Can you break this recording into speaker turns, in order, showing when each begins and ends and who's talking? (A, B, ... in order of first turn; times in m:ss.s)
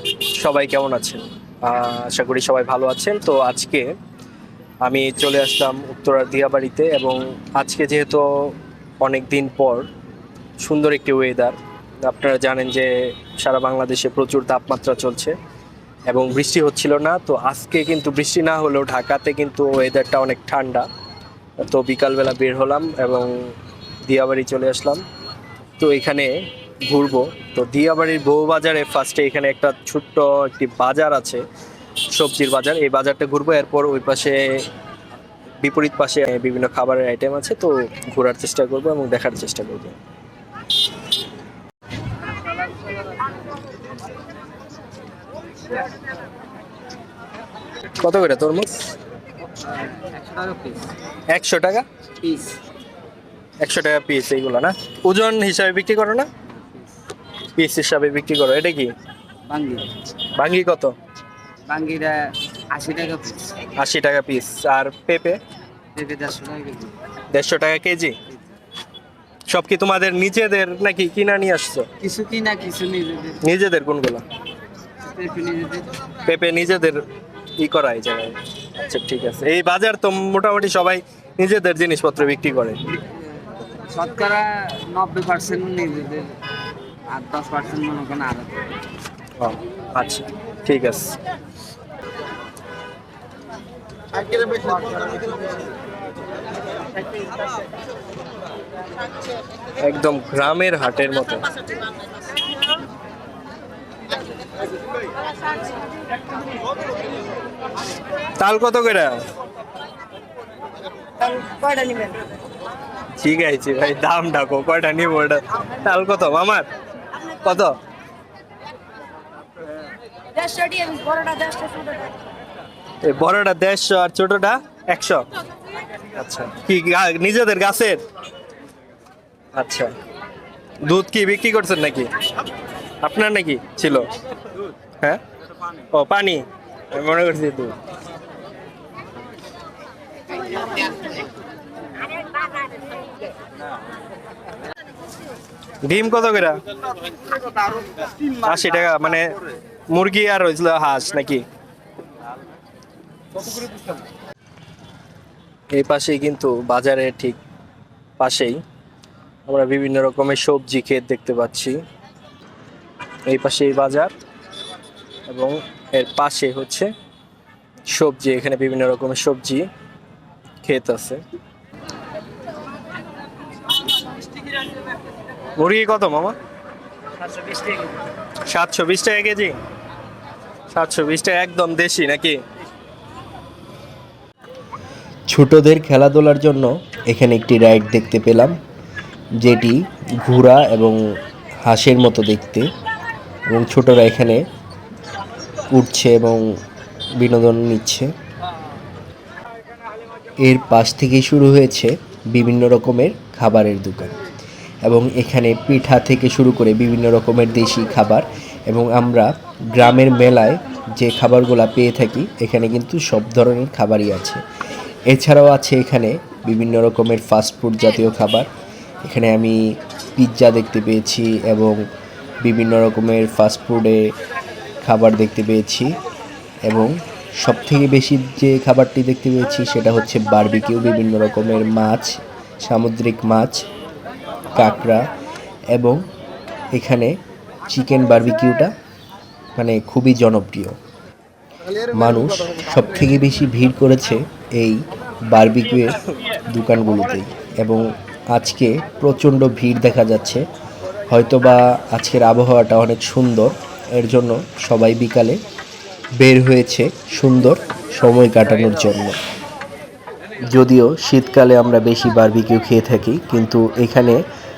0:00.4-0:03.9 A
0:04.8-0:09.9 A
0:10.6-0:15.3 A
0:16.1-0:20.8 A
0:21.6-0:23.5 A
0:24.0-0:25.0 A
0:25.8-0:31.4 A
0:32.1-0:34.6 A
0:35.6-0:40.0 A
0:48.0-0:48.9 A
0:49.5-0:50.9 B
0:51.3-0:51.9 A
0:52.2-0:52.6 B
0:53.6-0:56.3 A
0:57.5-0:58.9 A
0:59.5-0:59.9 B
1:00.3-1:00.9 A
1:01.7-1:03.6 B
1:03.8-1:05.4 A
1:06.0-1:07.0 B
1:07.3-1:08.2 A
1:09.5-1:11.9 A
1:12.0-1:13.4 B
1:13.4-1:14.2 A
1:15.0-1:16.0 B
1:16.2-1:17.0 A
1:17.6-1:22.8 A
1:22.9-1:26.4 B
1:27.1-1:28.8 B
1:29.4-1:31.1 A
1:34.4-1:35.1 B
1:39.8-1:41.4 A
1:48.4-1:49.2 A
1:51.2-1:52.2 B
1:53.2-1:56.7 A
1:57.2-1:57.8 A
2:00.4-2:02.1 B
2:03.0-2:05.2 A
2:06.1-2:08.0 A
2:09.5-2:09.9 A
2:10.8-2:12.1 A
2:13.0-2:14.1 A
2:15.9-2:17.8 A
2:25.8-2:26.6 A
2:28.4-2:29.3 A
2:29.9-2:31.4 A
2:35.7-2:37.4 A
2:38.2-2:38.6 A
2:39.5-2:41.8 A
2:43.2-2:44.1 A
2:45.3-2:46.9 A
2:47.9-2:49.6 A
2:50.6-2:51.2 A
2:55.6-2:56.4 A
2:58.5-2:59.6 A
3:00.7-3:02.4 A
3:05.3-3:08.6 C
3:09.4-3:11.0 C
3:11.6-3:12.7 C
3:13.5-3:14.4 C
3:15.7-3:16.5 C
3:17.2-3:18.1 C
3:20.4-3:24.1 C
3:24.8-3:34.4 C
3:35.1-3:38.5 C
3:39.0-3:41.8 C
3:42.4-3:44.1 C
3:44.8-3:46.0 C
3:46.6-3:53.6 C
3:54.5-3:55.1 C
3:55.7-3:56.0 C
3:56.7-3:57.2 C
3:57.7-3:58.7 C
3:59.6-4:00.8 C
4:01.9-4:10.4 C
4:11.1-4:15.4 C
4:16.2-4:19.2 C
4:20.5-4:24.2 C